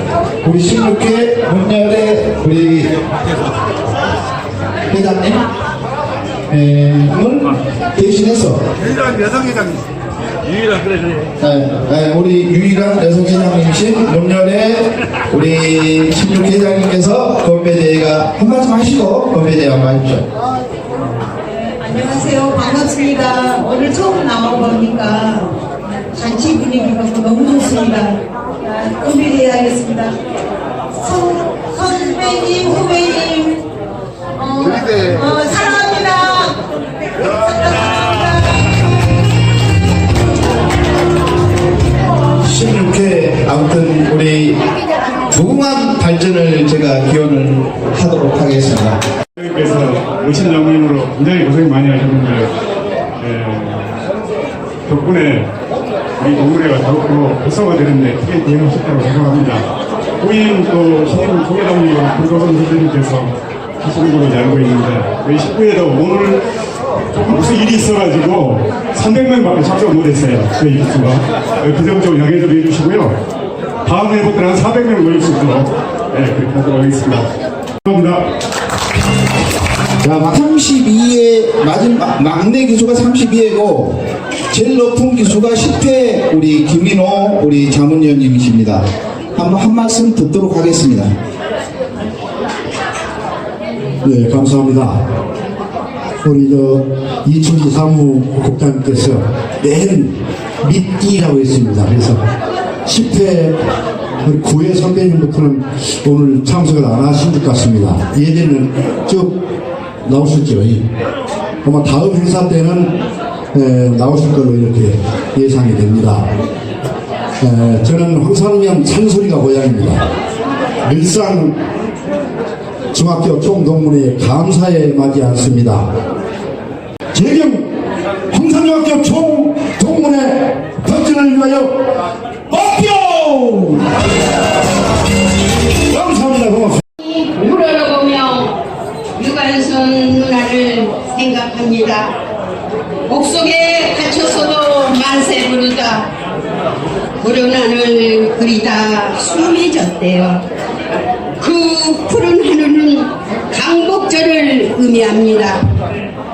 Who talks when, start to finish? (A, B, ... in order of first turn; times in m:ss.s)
0:00.4-0:02.9 A
0:04.9-0:05.4 A
0:06.5-0:08.6 A
0:11.4-0:20.2 A
0:21.8-0:25.4 B
0:26.2-0:30.1 B
0:31.0-0:33.6 B
0:34.4-0:36.5 B
0:37.4-0:38.3 B
0:42.4-0:44.6 A
0:45.3-0:49.0 A
0:49.4-0:52.5 C
0:53.2-0:54.0 C
0:54.9-0:55.5 C
0:56.2-0:59.6 C
1:00.2-1:06.4 C
1:07.1-1:13.2 C
1:13.8-1:17.3 C
1:17.8-1:18.2 C
1:20.0-1:28.8 A
1:29.3-1:31.1 A
1:34.0-1:35.0 D
1:36.2-1:42.3 D
1:42.8-1:43.6 D
1:44.2-1:49.3 D
1:50.0-1:50.8 D
1:51.6-1:53.0 D
1:53.5-1:56.2 D
1:57.4-2:00.0 D
2:00.8-2:01.5 D
2:02.9-2:05.9 D
2:07.1-2:07.6 D
2:08.3-2:11.7 D
2:12.5-2:13.8 D
2:15.9-2:16.8 D
2:17.0-2:18.5 E
2:19.2-2:22.1 E
2:23.1-2:26.1 E
2:27.2-2:30.4 E
2:31.4-2:35.6 E